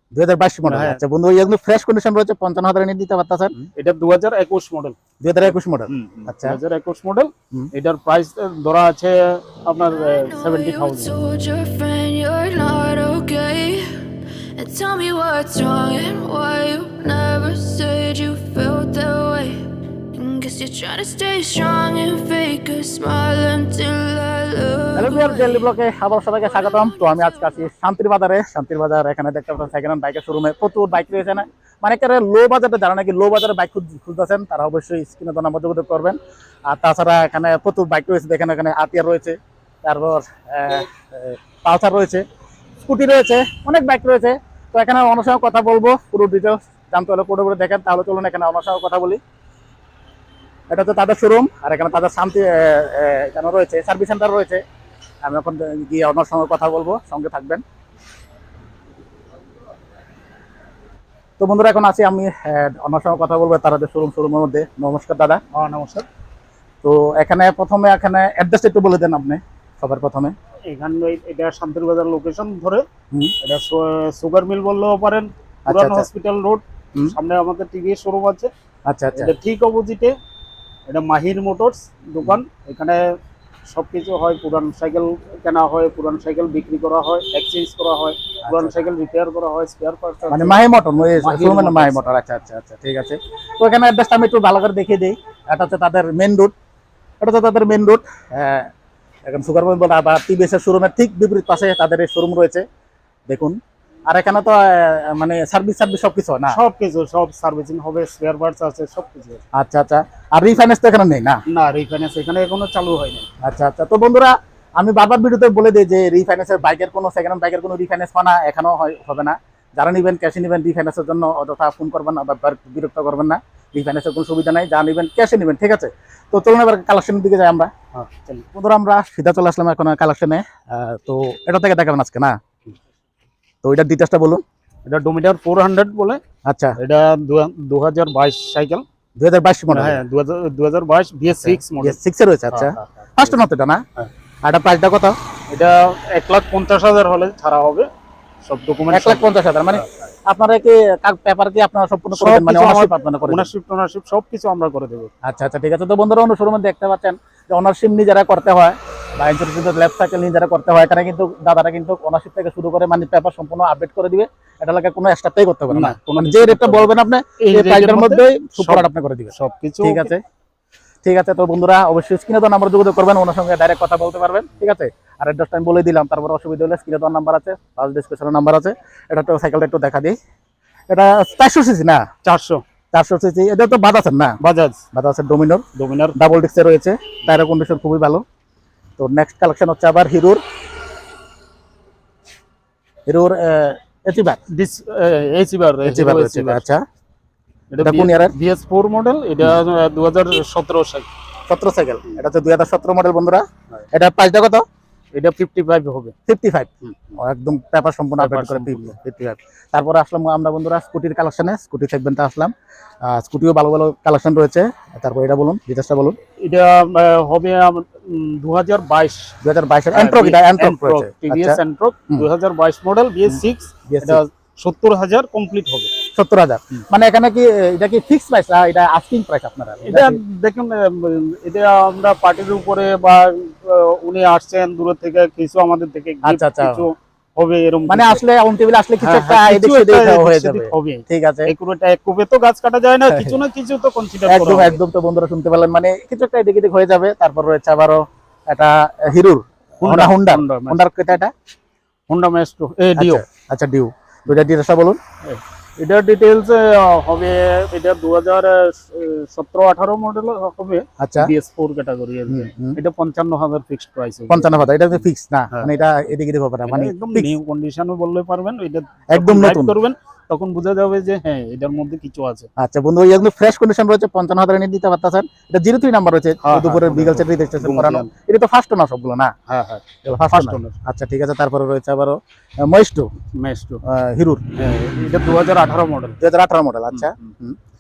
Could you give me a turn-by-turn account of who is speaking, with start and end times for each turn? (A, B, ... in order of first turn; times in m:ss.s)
0:00.1-0:03.5 A
0:00.7-0:01.0 B
0:03.5-0:05.0 B
0:05.2-0:06.6 A
0:05.5-0:11.2 B
0:10.1-0:25.6 C
0:24.9-0:42.2 A
0:42.8-0:49.2 A
0:50.7-0:54.6 A
0:55.2-0:57.6 A
1:01.4-1:05.4 A
1:05.5-1:06.1 B
1:06.8-1:10.3 A
1:10.7-1:12.8 B
1:13.4-1:18.5 B
1:15.7-1:16.1 A
1:18.9-1:19.3 A
1:19.2-1:20.2 B
1:20.9-1:23.0 B
1:23.7-1:30.6 B
1:28.5-1:28.8 A
1:30.3-1:36.5 A
1:31.2-1:32.0 B
1:37.2-1:38.7 A
1:39.2-1:42.6 A
1:43.3-1:43.6 A
1:44.1-1:46.6 A
1:46.5-1:49.4 B
1:49.5-1:51.4 A
1:51.5-1:53.3 B
1:53.4-2:07.7 A
2:07.9-2:08.5 B
2:08.6-2:12.4 A
2:13.6-2:14.4 A
2:14.9-2:16.2 B
2:16.5-2:16.8 A
2:16.8-2:18.8 B
2:19.2-2:20.0 A
2:19.7-2:22.0 B
2:21.4-2:23.8 A
2:22.5-2:23.3 B
2:24.4-2:25.2 A
2:25.5-2:27.9 B
2:28.4-2:30.1 B
2:28.9-2:33.5 A
2:32.1-2:35.1 B
2:35.2-2:50.2 A
2:45.7-2:50.1 B
2:51.0-3:00.2 A
3:00.9-3:02.0 A
3:02.2-3:02.6 B
3:02.9-3:04.4 A
3:04.4-3:04.8 B
3:04.9-3:05.6 A
3:05.8-3:06.2 B
3:06.2-3:08.2 A
3:09.0-3:10.4 A
3:13.1-3:14.4 A
3:14.5-3:16.7 B
3:15.8-3:16.8 A
3:17.7-3:21.1 B
3:17.8-3:18.3 A
3:21.5-3:24.6 A
3:25.1-3:26.2 B
3:26.3-3:36.2 A
3:26.8-3:27.2 B
3:28.2-3:29.0 B
3:36.4-3:39.4 B
3:39.4-3:41.6 A
3:39.9-3:46.0 B
3:43.9-3:44.2 A
3:46.1-3:50.2 A
3:49.8-3:58.2 B
3:56.2-3:56.8 A
3:57.9-4:01.5 A
3:59.0-4:04.8 B
4:03.1-4:03.4 A
4:04.3-4:11.3 A
4:09.8-4:10.8 B
4:12.1-4:13.2 B
4:13.0-4:15.0 A
4:15.3-4:25.7 B
4:21.0-4:21.3 A
4:22.3-4:22.8 A
4:24.3-4:27.3 A
4:26.7-4:32.5 B
4:29.1-4:29.8 A
4:32.6-4:39.3 A
4:36.4-4:38.1 B
4:39.5-4:40.8 B
4:40.0-4:43.1 A
4:43.4-4:43.8 B
4:43.8-4:44.4 A
4:44.6-4:46.2 B
4:46.2-4:47.6 A
4:46.9-4:47.4 B